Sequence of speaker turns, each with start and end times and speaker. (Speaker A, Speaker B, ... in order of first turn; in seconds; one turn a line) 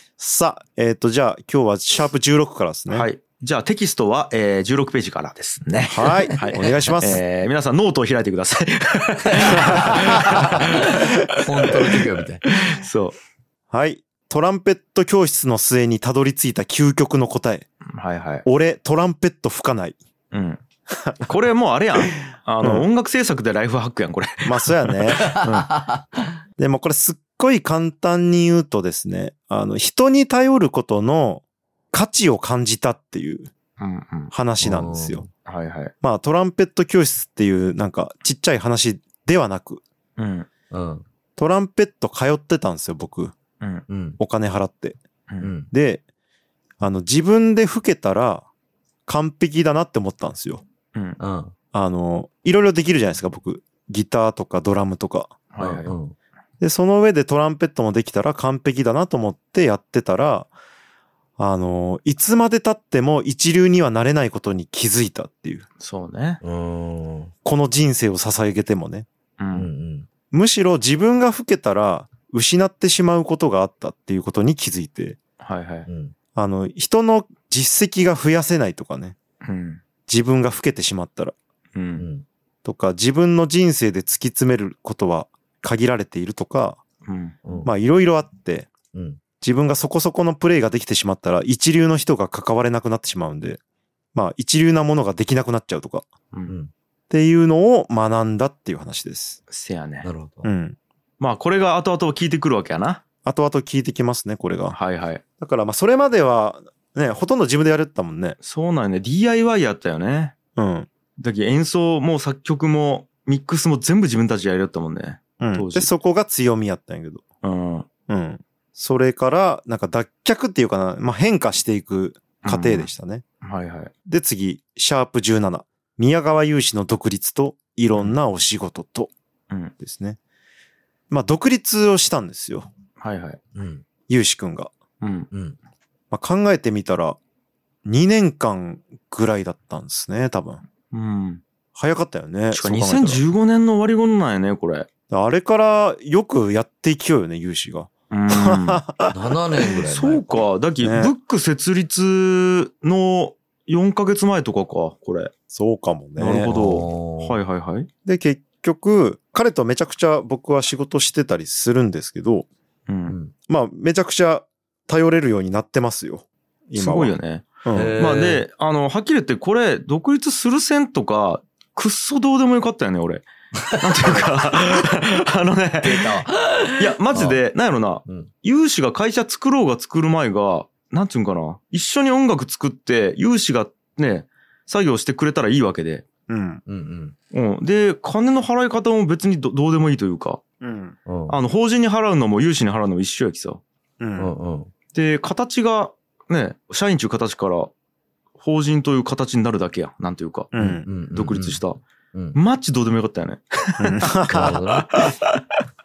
Speaker A: 0.2-3.1
Speaker B: 2.9-13.2
Speaker A: 5.8-7.2
Speaker C: 6.2-7.1
Speaker C: 9.2-12.4
Speaker A: 9.7-10.5
Speaker A: 13.7-17.7
Speaker B: 17.9-18.4
Speaker A: 18.4-20.0
Speaker B: 20.3-20.6
Speaker A: 20.9-21.2
Speaker B: 21.2-25.7
Speaker A: 24.4-25.2
Speaker C: 25.2-26.3
Speaker A: 26.6-33.5
Speaker B: 33.8-34.3
Speaker A: 34.3-35.2
Speaker C: 34.6-35.3
Speaker B: 35.4-35.9
Speaker A: 36.0-39.8
Speaker B: 40.2-40.5
Speaker C: 40.7-41.0
Speaker A: 41.4-43.3
Speaker C: 43.9-44.2
Speaker A: 44.2-45.0
Speaker C: 45.4-45.7
Speaker A: 45.7-46.0
Speaker A: 46.8-48.5
Speaker A: 49.1-50.6
Speaker B: 50.9-51.2
Speaker C: 51.2-51.5
Speaker A: 51.7-55.3
Speaker B: 55.5-55.9
Speaker C: 55.6-56.1
Speaker A: 56.6-60.5
Speaker A: 61.4-65.6
Speaker B: 65.8-66.4
Speaker C: 66.4-67.3
Speaker A: 67.4-69.1
Speaker B: 69.4-69.7
Speaker C: 69.5-70.1
Speaker A: 70.3-75.2
Speaker B: 75.4-75.9
Speaker C: 75.8-76.1
Speaker A: 76.3-79.2
Speaker B: 79.4-79.8
Speaker A: 80.1-81.3
Speaker B: 81.7-82.0
Speaker C: 82.0-82.2
Speaker A: 82.6-86.8
Speaker B: 87.0-87.3
Speaker C: 87.4-87.7
Speaker A: 87.6-88.7
Speaker C: 88.9-89.2
Speaker A: 89.4-93.6
Speaker A: 94.1-96.0
Speaker A: 97.1-99.4
Speaker B: 99.5-100.1
Speaker C: 100.0-100.5
Speaker A: 100.4-100.8
Speaker B: 101.2-103.0
Speaker A: 103.2-104.8
Speaker B: 104.7-105.2
Speaker A: 105.4-108.4
Speaker B: 108.4-110.3
Speaker A: 110.5-110.9
Speaker B: 111.2-115.9
Speaker A: 115.4-117.2
Speaker B: 117.4-117.8
Speaker A: 118.1-123.2
Speaker B: 122.4-122.9
Speaker B: 123.4-123.9
Speaker A: 124.1-129.1
Speaker A: 129.8-130.2
Speaker A: 131.1-132.7
Speaker B: 133.0-133.4
Speaker C: 133.5-133.8
Speaker A: 134.1-134.7
Speaker B: 135.0-135.3
Speaker C: 135.3-135.6
Speaker A: 136.1-137.2
Speaker A: 137.8-140.6
Speaker B: 140.9-141.4
Speaker A: 141.7-143.2
Speaker B: 142.5-144.9
Speaker A: 145.1-149.3
Speaker B: 148.1-148.8
Speaker C: 149.1-150.4
Speaker B: 149.9-155.3
Speaker A: 150.8-151.1
Speaker A: 155.5-156.5
Speaker B: 156.2-157.9
Speaker C: 156.4-157.4
Speaker A: 158.1-162.5
Speaker B: 162.9-163.2
Speaker A: 163.5-167.9
Speaker B: 166.7-176.2
Speaker C: 167.7-168.4
Speaker C: 173.6-174.3
Speaker C: 175.8-177.4
Speaker B: 176.8-186.0
Speaker A: 186.3-186.6
Speaker C: 186.7-187.1
Speaker B: 187.3-190.4
Speaker A: 190.6-190.9
Speaker C: 191.1-191.3
Speaker B: 191.3-193.6
Speaker A: 194.0-194.3
Speaker C: 194.2-194.7
Speaker B: 194.9-197.7
Speaker B: 198.4-200.5
Speaker A: 200.5-200.8
Speaker C: 200.6-201.6
Speaker B: 201.1-201.8
Speaker B: 202.3-205.4
Speaker A: 203.8-204.6
Speaker C: 204.3-204.9